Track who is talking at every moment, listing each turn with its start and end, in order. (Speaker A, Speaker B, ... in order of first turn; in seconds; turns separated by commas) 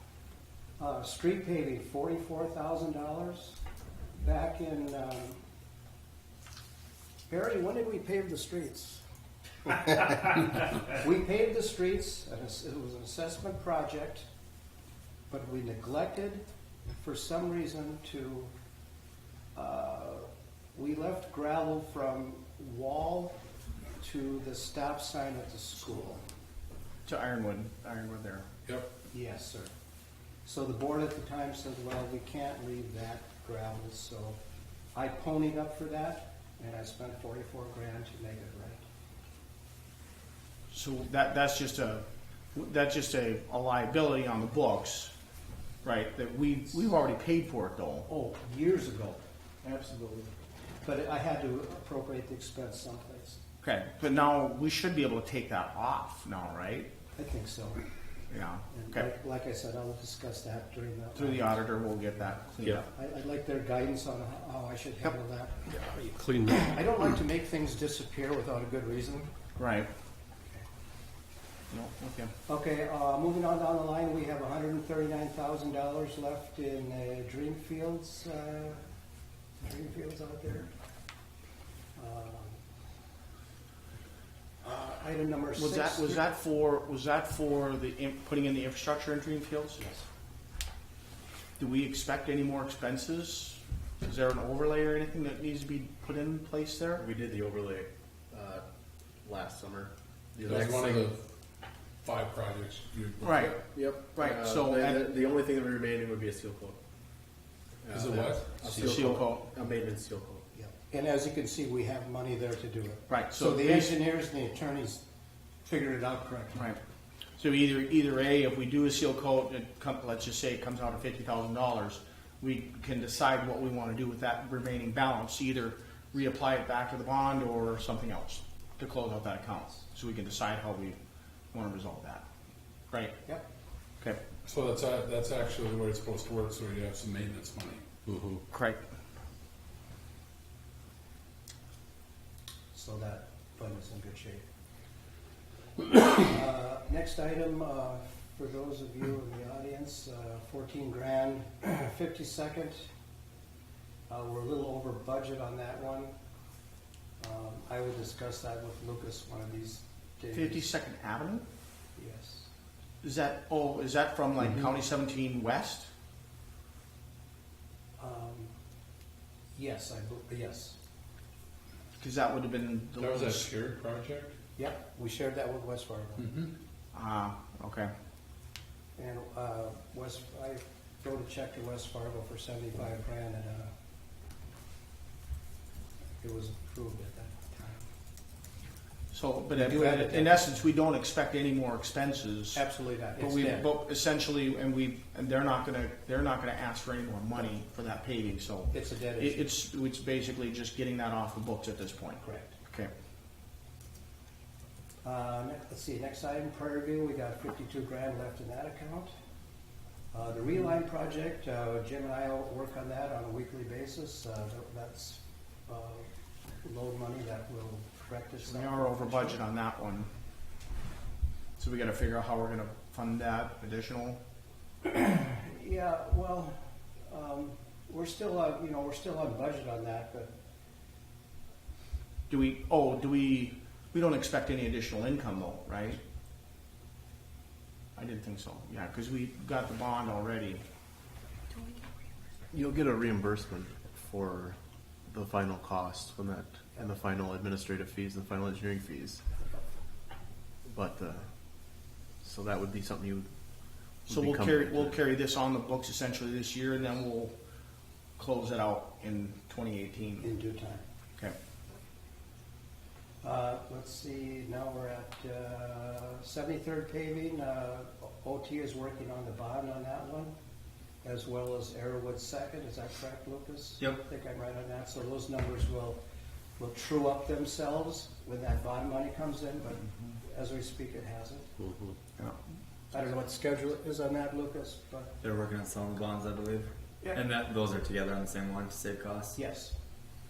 Speaker A: 0.8-3.6, Speaker A: 4.2-5.4, Speaker A: 7.3-9.0, Speaker A: 9.6-14.3, Speaker A: 15.3-16.4, Speaker A: 17.0-18.5, Speaker A: 19.5-23.3, Speaker A: 24.0-26.2, Speaker B: 27.1-28.4, Speaker A: 29.1-29.7, Speaker A: 30.4-34.4, Speaker A: 34.9-38.8, Speaker B: 40.7-45.1, Speaker B: 45.8-48.1, Speaker A: 48.1-49.2, Speaker B: 49.6-50.3, Speaker A: 50.8-53.4, Speaker B: 53.6-56.9, Speaker A: 57.1-57.8, Speaker B: 58.3-59.0, Speaker A: 58.7-65.9, Speaker B: 61.1-62.8, Speaker C: 66.0-66.7, Speaker A: 66.5-69.3, Speaker B: 69.6-69.9, Speaker B: 71.7-72.3, Speaker A: 72.5-78.8, Speaker A: 79.6-80.7, Speaker A: 82.0-82.6, Speaker A: 84.6-86.2, Speaker B: 85.6-89.9, Speaker B: 91.6-97.0, Speaker D: 97.0-98.6, Speaker D: 99.2-101.1, Speaker C: 100.4-101.2, Speaker C: 102.0-103.6, Speaker B: 103.2-105.0, Speaker D: 103.6-106.8, Speaker D: 107.8-110.4, Speaker C: 107.9-109.0, Speaker B: 108.8-109.5, Speaker A: 110.5-115.0, Speaker B: 113.1-114.0, Speaker A: 115.6-116.7, Speaker B: 117.4-131.0, Speaker B: 131.5-132.2, Speaker B: 132.9-133.2, Speaker C: 134.4-138.4, Speaker B: 138.5-138.8, Speaker A: 142.7-144.4, Speaker A: 145.9-152.9, Speaker A: 154.1-156.1, Speaker A: 157.2-160.7, Speaker B: 160.3-161.4, Speaker A: 162.0-162.5, Speaker B: 163.0-165.9, Speaker A: 168.0-168.5, Speaker A: 169.6-170.8, Speaker B: 172.0-173.5, Speaker C: 173.0-174.3, Speaker A: 174.6-176.3, Speaker C: 176.2-176.5, Speaker B: 176.9-177.9, Speaker A: 179.0-183.7, Speaker A: 186.2-187.9, Speaker B: 189.1-192.6, Speaker A: 189.6-190.4, Speaker A: 192.5-193.7, Speaker B: 193.2-202.9, Speaker A: 198.7-199.4, Speaker A: 202.2-202.5, Speaker A: 205.0-209.1, Speaker A: 210.1-216.1, Speaker A: 216.6-219.4, Speaker B: 218.4-220.1, Speaker B: 221.6-224.2, Speaker A: 224.8-226.5, Speaker A: 227.1-230.3, Speaker B: 232.3-236.0, Speaker B: 237.9-240.6, Speaker D: 242.5-249.3, Speaker D: 250.6-253.3, Speaker D: 254.0-255.0, Speaker B: 254.1-257.3, Speaker B: 258.2-260.3, Speaker A: 260.2-260.8, Speaker A: 263.2-270.3, Speaker A: 271.0-276.0, Speaker A: 276.6-281.5, Speaker A: 282.9-285.1, Speaker E: 285.2-289.4, Speaker A: 289.3-289.7